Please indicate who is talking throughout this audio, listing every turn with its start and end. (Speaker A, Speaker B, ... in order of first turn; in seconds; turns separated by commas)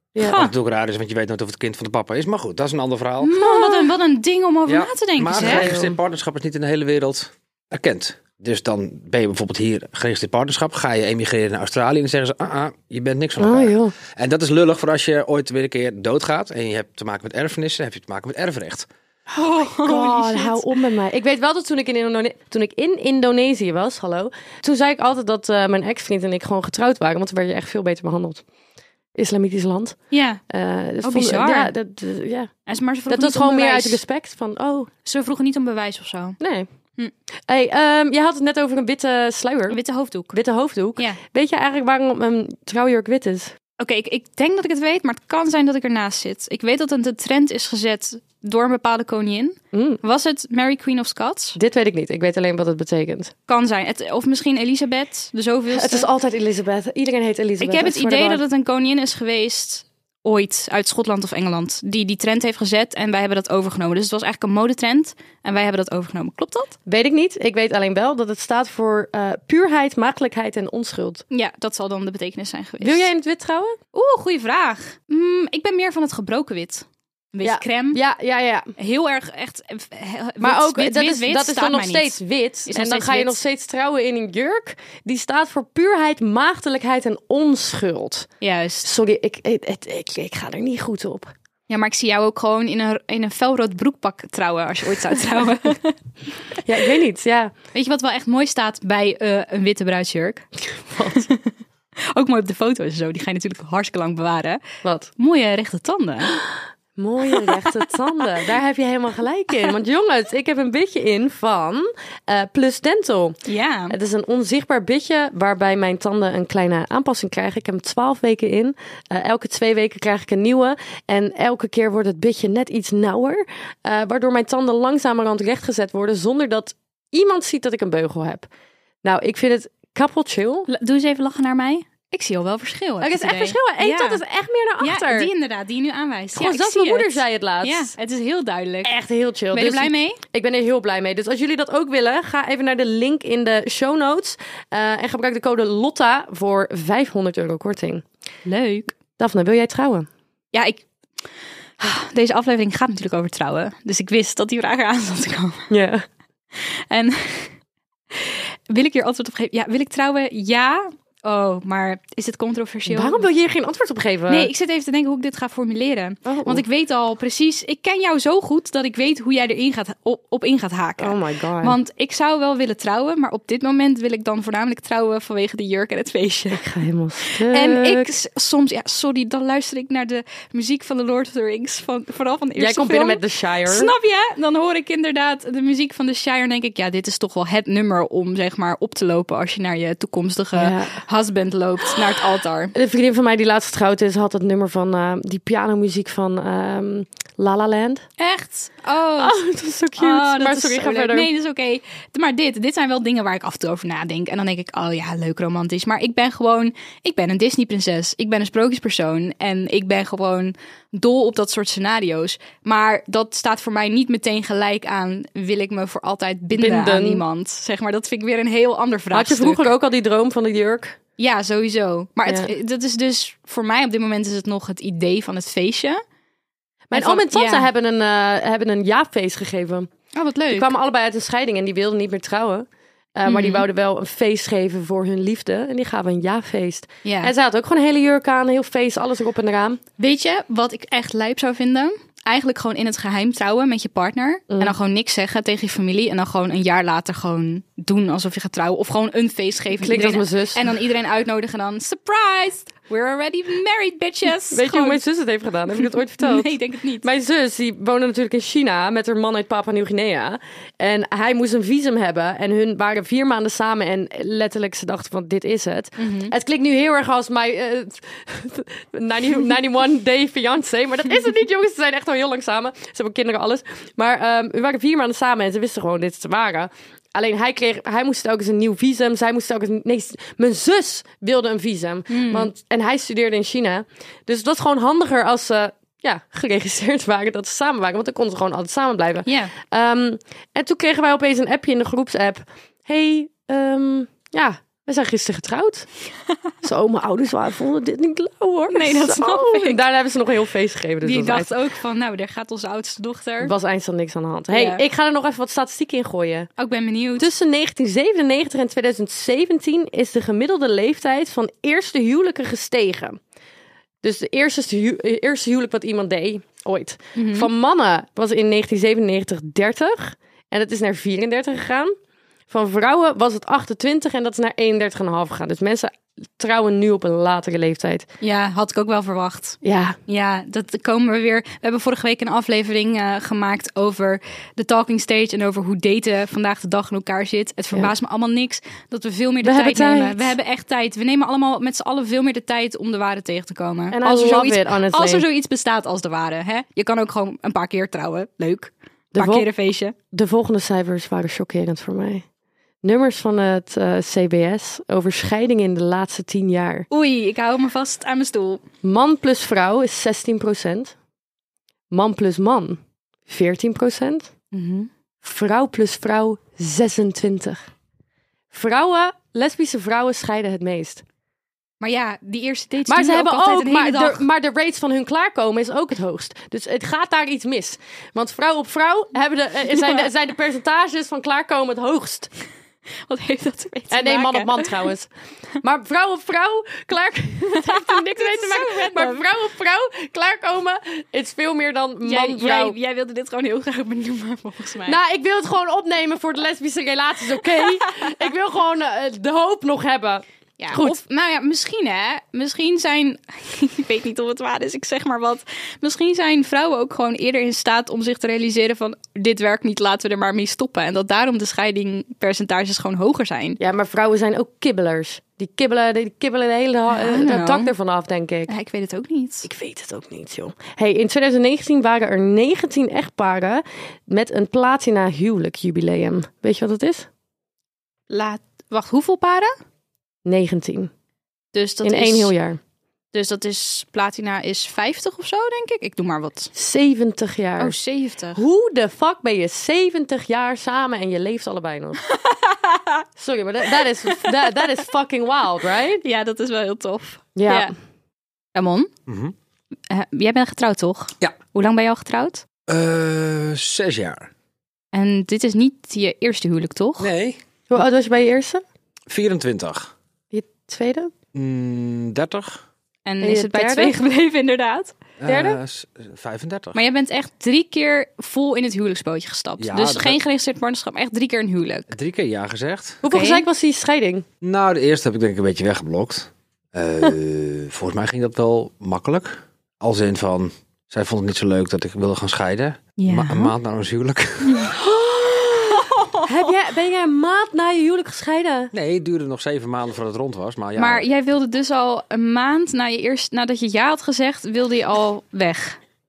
Speaker A: 0.2-0.5, Speaker B: 0.3-3.3, Speaker A: 3.2-5.7, Speaker C: 3.4-3.9, Speaker B: 4.7-18.9, Speaker C: 5.4-5.9, Speaker C: 13.4-13.9, Speaker A: 19.3-20.7, Speaker C: 19.6-28.4, Speaker C: 29.2-32.5, Speaker A: 30.1-30.4, Speaker A: 31.0-31.7, Speaker A: 32.7-34.0, Speaker C: 33.1-34.9, Speaker A: 35.0-36.4, Speaker C: 36.4-36.7, Speaker C: 37.5-39.8, Speaker A: 39.7-40.4, Speaker C: 40.3-43.5, Speaker A: 43.8-51.6, Speaker C: 49.7-50.0, Speaker C: 51.6-53.3, Speaker A: 53.5-56.1, Speaker C: 55.7-58.4, Speaker A: 57.6-66.8, Speaker C: 66.9-71.2, Speaker A: 71.3-73.1, Speaker C: 72.8-73.8, Speaker A: 73.9-78.0, Speaker C: 77.4-78.7, Speaker A: 78.8-83.4, Speaker C: 80.4-88.3, Speaker A: 88.4-88.9, Speaker C: 88.8-91.3, Speaker A: 91.7-96.0, Speaker C: 96.7-97.5, Speaker A: 97.7-100.5, Speaker C: 100.9-101.3, Speaker A: 101.2-101.5, Speaker A: 102.1-104.6, Speaker C: 104.8-105.1, Speaker A: 105.2-106.4, Speaker C: 107.0-113.4, Speaker A: 113.5-114.0, Speaker C: 113.9-128.5, Speaker C: 129.0-130.7, Speaker A: 130.7-134.2, Speaker C: 133.0-135.3, Speaker A: 134.8-138.9, Speaker C: 136.3-137.9, Speaker C: 138.8-148.0, Speaker A: 139.5-140.2, Speaker A: 148.5-148.9, Speaker C: 149.2-150.1, Speaker A: 150.5-150.8, Speaker A: 151.8-155.7, Speaker C: 155.7-156.0, Speaker A: 156.6-157.5, Speaker A: 158.1-163.2, Speaker C: 162.9-164.5, Speaker A: 164.3-176.7, Speaker C: 166.3-166.6, Speaker C: 171.0-171.8, Speaker C: 176.5-178.1, Speaker A: 177.3-192.7, Speaker C: 182.6-183.9, Speaker C: 190.6-191.0, Speaker C: 192.8-198.1, Speaker A: 198.2-199.4, Speaker C: 199.2-201.3, Speaker A: 200.0-219.7, Speaker C: 216.6-217.2, Speaker C: 219.1-221.0, Speaker A: 221.2-226.0, Speaker C: 226.9-229.9, Speaker A: 226.9-227.7, Speaker A: 230.2-230.7, Speaker C: 230.5-239.8, Speaker A: 233.2-233.7, Speaker A: 237.1-237.3, Speaker A: 240.0-255.0, Speaker C: 249.8-250.6, Speaker C: 254.5-295.9, Speaker A: 256.2-257.1, Speaker A: 266.0-266.3, Speaker A: 282.1-282.5, Speaker A: 289.3-289.5, Speaker C: 296.6-301.5, Speaker A: 298.7-299.8, Speaker A: 301.0-303.5, Speaker C: 303.4-306.5, Speaker A: 304.5-304.8, Speaker A: 306.6-307.3, Speaker C: 307.2-313.2, Speaker C: 314.0-321.9, Speaker A: 317.2-317.5, Speaker C: 322.5-328.1, Speaker A: 328.2-349.9, Speaker C: 329.6-330.0, Speaker C: 339.4-340.4, Speaker C: 343.9-345.2, Speaker C: 349.1-349.5, Speaker C: 350.1-352.2, Speaker C: 352.8-356.9, Speaker A: 356.9-358.6, Speaker C: 358.8-360.9, Speaker C: 361.9-364.3, Speaker A: 364.5-364.9, Speaker C: 365.2-367.6, Speaker C: 368.5-371.0, Speaker A: 371.8-374.2, Speaker C: 372.9-382.3, Speaker A: 383.1-384.8, Speaker C: 383.9-385.1, Speaker C: 385.6-392.8, Speaker A: 387.6-389.2, Speaker A: 392.1-395.0, Speaker C: 394.9-401.0, Speaker A: 400.6-413.6, Speaker C: 413.6-418.5, Speaker A: 416.9-417.7, Speaker A: 418.5-419.5, Speaker C: 419.4-427.1, Speaker A: 428.1-429.5, Speaker C: 430.2-430.9, Speaker A: 431.5-432.3, Speaker C: 431.8-432.6, Speaker A: 433.1-436.5, Speaker C: 436.6-437.8, Speaker A: 437.6-438.4, Speaker C: 438.4-442.0, Speaker A: 442.1-443.1, Speaker C: 443.2-446.0, Speaker A: 443.7-444.6, Speaker A: 446.0-447.7, Speaker C: 447.4-447.7, Speaker A: 448.6-448.9, Speaker B: 449.1-449.3, Speaker A: 449.9-452.4, Speaker B: 452.7-454.3, Speaker A: 454.9-457.1, Speaker B: 457.0-457.4, Speaker C: 457.7-458.6, Speaker B: 459.1-459.9, Speaker C: 460.3-461.1, Speaker B: 461.3-462.6, Speaker A: 463.1-464.9, Speaker C: 463.2-464.0, Speaker B: 465.2-466.8, Speaker C: 465.3-465.6, Speaker A: 466.8-471.9, Speaker B: 469.6-470.2, Speaker B: 471.9-473.0, Speaker C: 473.0-474.3, Speaker A: 473.1-473.4, Speaker B: 474.4-484.7, Speaker A: 483.0-483.5, Speaker A: 484.5-484.8, Speaker C: 484.8-488.7, Speaker A: 485.7-486.3, Speaker B: 488.7-491.1, Speaker A: 490.8-495.8